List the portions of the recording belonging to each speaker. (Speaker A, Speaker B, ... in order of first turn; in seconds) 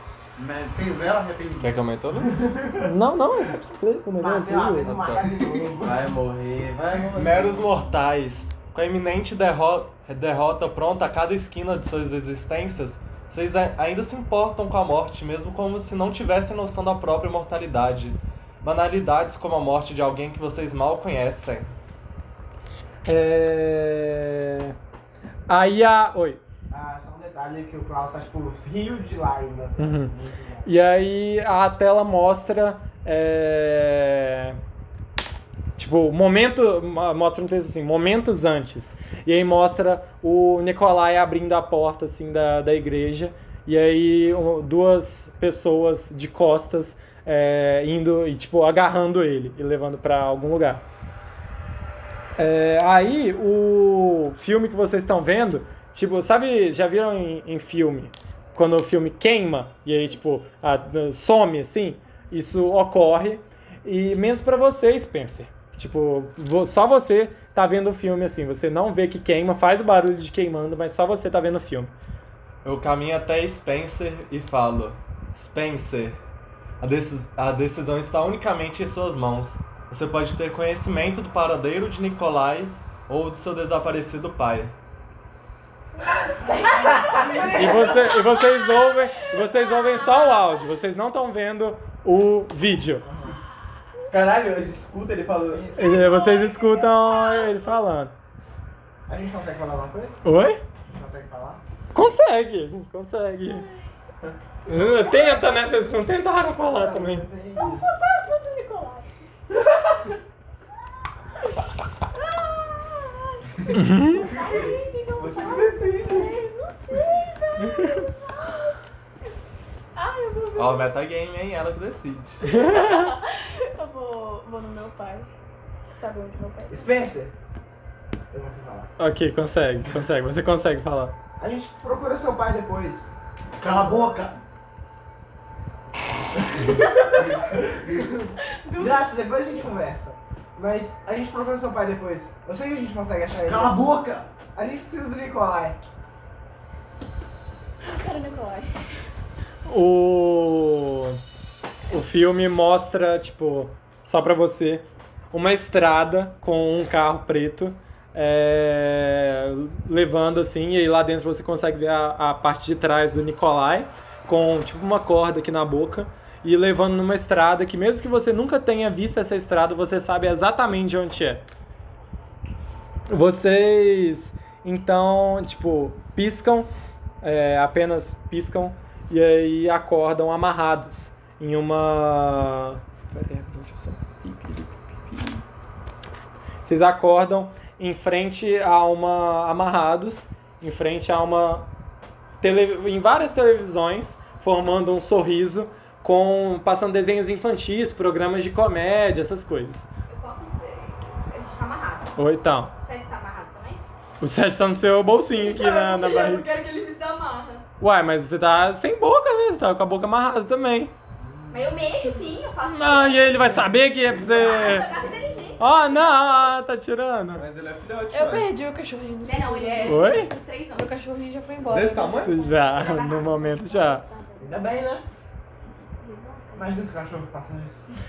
Speaker A: 0.3-1.8, 133.6-134.4, 143.4-144.3
Speaker B: 1.6-2.9, 7.1-21.7, 72.6-76.2, 76.8-84.7, 115.3-116.3, 120.5-122.4, 217.3-218.5, 221.6-222.4
Speaker C: 2.8-5.1, 23.0-24.7, 25.5-26.4, 29.8-30.1, 30.6-34.6, 35.8-50.8, 52.4-71.9, 87.5-93.0, 95.8-98.1, 100.2-100.6, 101.9-103.6, 104.7-107.3, 113.7-114.3, 122.4-123.1, 129.0-131.2, 149.6-151.2, 151.9-171.4, 173.1-176.7, 177.2-185.4, 186.6-191.7, 192.4-199.9, 202.2-202.7, 204.2-206.4, 207.8-210.9, 212.6-214.9, 215.6-217.4, 219.8-220.3, 222.2-224.0
Speaker D: 4.2-6.1, 26.7-30.7, 87.2-88.1, 93.0-93.4, 95.5-96.3, 99.1-100.2, 100.9-101.6, 106.6-107.9, 126.7-127.3, 128.3-128.9, 131.4-134.2, 136.7-144.0, 144.5-145.8, 211.2-212.1, 214.1-215.6, 224.4-225.0, 226.5-227.8
Speaker E: 4.8-5.2, 5.8-7.7, 94.1-95.7, 115.2-116.3
Speaker F: 86.5-90.6, 95.8-97.7, 104.7-105.7, 107.5-109.1, 112.2-118.7, 119.9-121.0, 122.4-125.3, 126.0-127.0, 136.7-137.2, 138.6-139.1, 147.8-148.7, 223.6-224.7, 226.0-226.7
Speaker G: 200.1-202.2, 202.8-203.8, 205.3-207.6, 211.5-213.6, 214.2-216.6, 219.2-221.0, 222.6-224.0
Speaker H: 218.1-220.2, 220.7-222.3